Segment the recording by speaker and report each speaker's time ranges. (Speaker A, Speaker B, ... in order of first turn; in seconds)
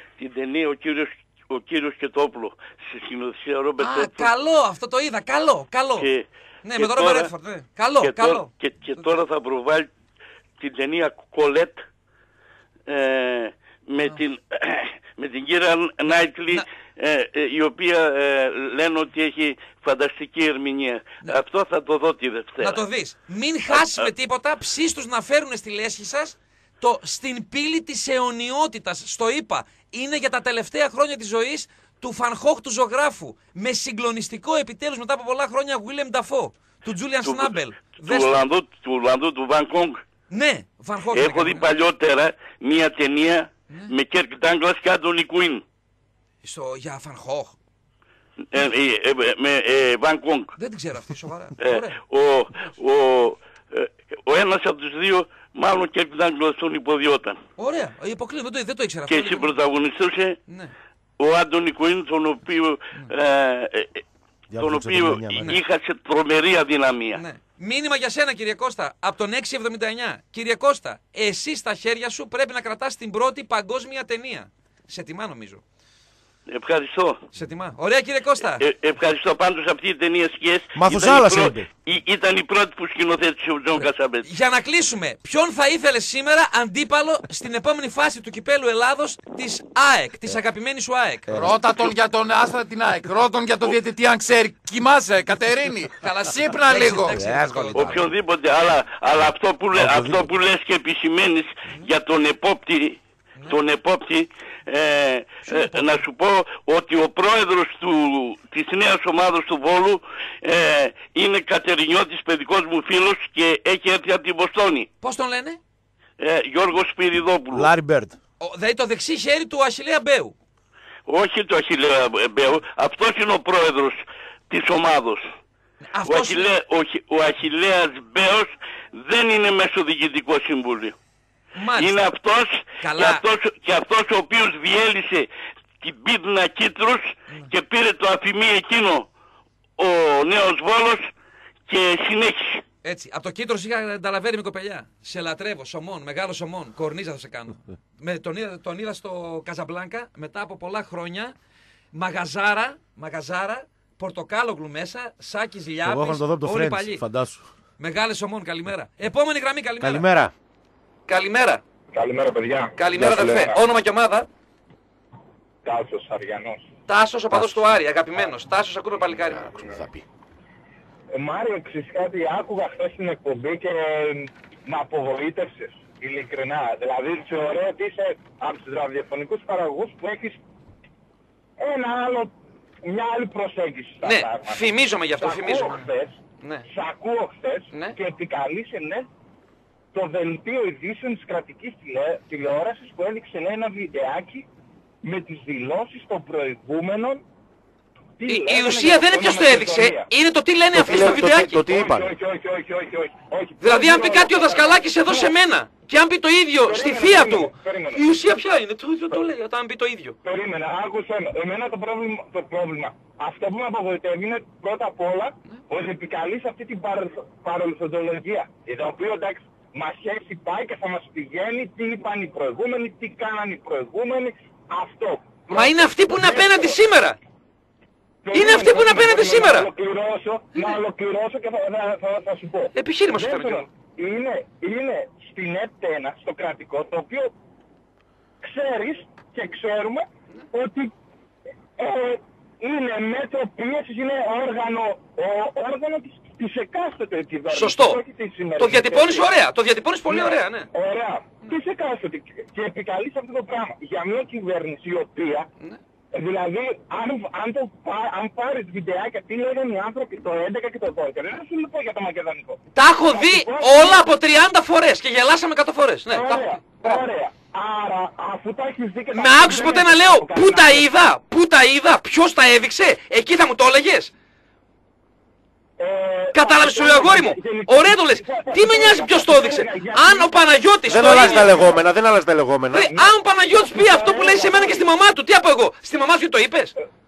Speaker A: 0.2-4.3, 6.0-7.3, 8.0-9.9, 10.6-11.8, 12.9-22.8, 23.7-24.1, 37.2-40.0, 41.1-45.6, 48.5-50.5, 51.6-57.4, 59.1-60.4, 61.2-64.0, 64.6-67.2, 76.5-77.2, 78.5-84.3, 97.7-114.9, 116.2-117.7, 121.1-124.0, 124.5-125.2, 126.0-130.9, 131.8-135.3, 135.8-139.1, 139.8-141.1, 141.7-142.6
Speaker B: 3.8-6.1, 6.6-9.2, 22.6-38.4, 40.3-41.7, 46.4-47.6, 50.6-52.0, 57.6-59.5, 60.5-60.7, 67.1-75.6, 77.3-78.6, 83.8-91.3, 96.0-98.1, 105.5-106.0, 115.0-115.6, 118.4-120.3, 125.8-126.5, 131.6-132.1, 132.8-133.2, 142.8-151.3, 151.9-157.0, 157.8-160.1, 161.1-161.6, 162.8-164.3, 166.9-169.6, 184.0-185.8, 186.4-186.7, 187.7-188.0, 198.3-201.6, 203.6-210.2, 225.5-227.2, 228.3-229.7, 232.8-233.7, 247.5-248.0, 248.6-250.7, 262.7-267.0, 269.1-274.1, 276.3-281.5, 282.7-286.8
Speaker C: 64.5-65.5, 80.8-81.7, 91.3-91.8, 97.1-98.1, 99.7-100.3, 117.5-118.2, 155.8-157.4, 159.8-160.3, 163.0-163.4, 167.3-167.8, 169.3-170.1, 200.7-202.1, 280.9-283.1
Speaker D: 91.3-97.2
Speaker E: 161.9-163.6, 165.6-166.6, 171.1-180.4, 181.6-182.3, 182.9-186.2, 186.7-189.1, 189.9-194.4, 195.0-197.2, 198.2-200.1, 201.6-205.3, 206.6-208.0, 210.2-226.8, 228.2-237.3, 238.4-240.9, 241.8-249.3, 250.1-255.5, 256.1-264.1, 266.1-270.9, 275.8-280.3, 281.0-281.7, 283.4-284.9